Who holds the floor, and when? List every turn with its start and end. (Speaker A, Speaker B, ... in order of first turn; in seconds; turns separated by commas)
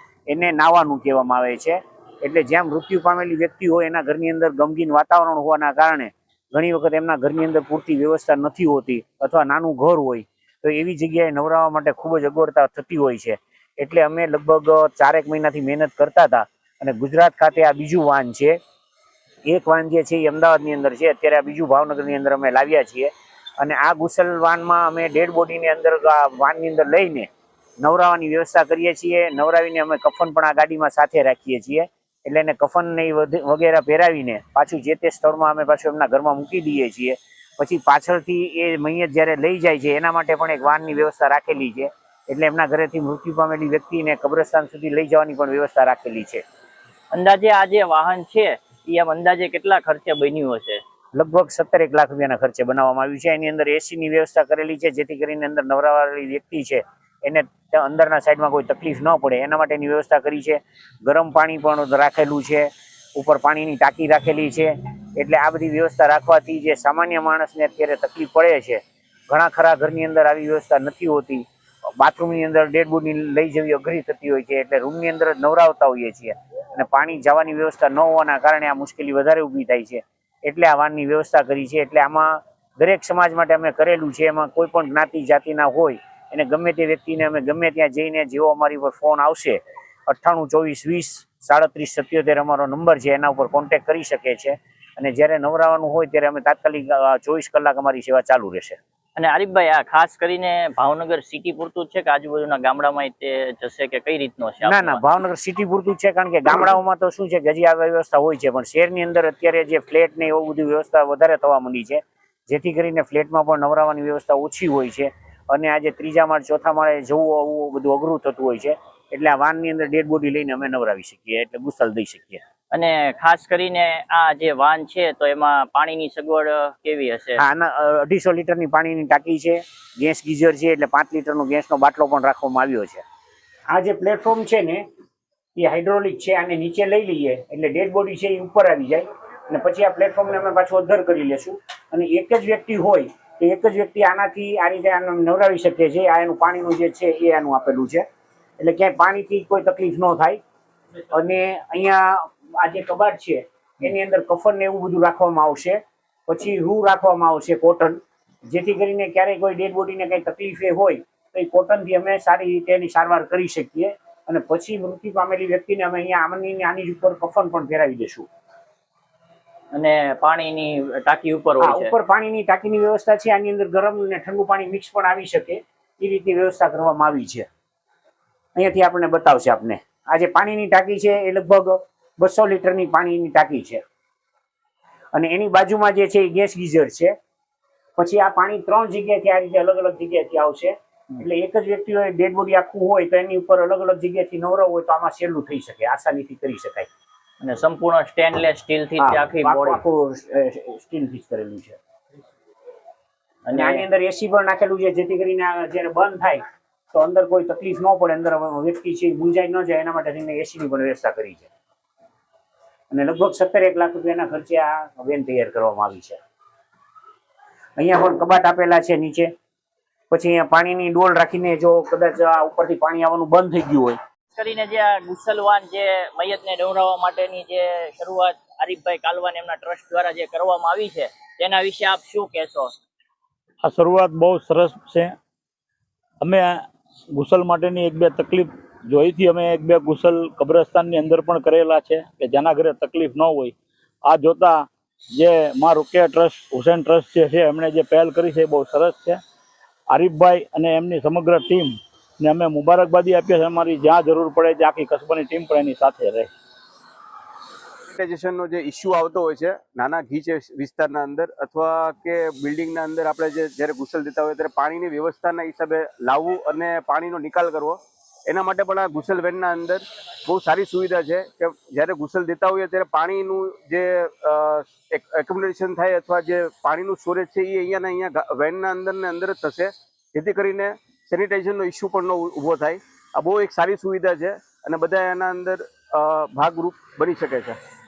Speaker A: 0.3-18.6, Speaker A: 19.5-27.3, Speaker A: 27.8-46.4, Speaker B: 47.1-50.8, Speaker A: 51.1-71.5, Speaker A: 72.0-98.8, Speaker B: 99.2-105.0, Speaker A: 104.6-122.4, Speaker B: 122.7-127.4, Speaker A: 127.3-133.0, Speaker A: 133.7-134.8, Speaker A: 135.6-148.0, Speaker A: 148.6-150.4, Speaker A: 151.1-168.3, Speaker B: 169.7-171.9, Speaker A: 171.6-177.5, Speaker A: 178.6-183.8, Speaker A: 185.1-187.1, Speaker A: 188.0-196.9, Speaker B: 197.4-199.8, Speaker A: 199.0-201.8, Speaker B: 203.5-203.8, Speaker A: 203.5-206.4, Speaker A: 206.9-211.5, Speaker A: 212.9-216.2, Speaker A: 217.8-219.3, Speaker A: 220.1-224.0, Speaker B: 224.3-232.7, Speaker C: 233.6-235.2, Speaker C: 236.2-249.2, Speaker C: 249.9-256.3, Speaker D: 257.9-287.6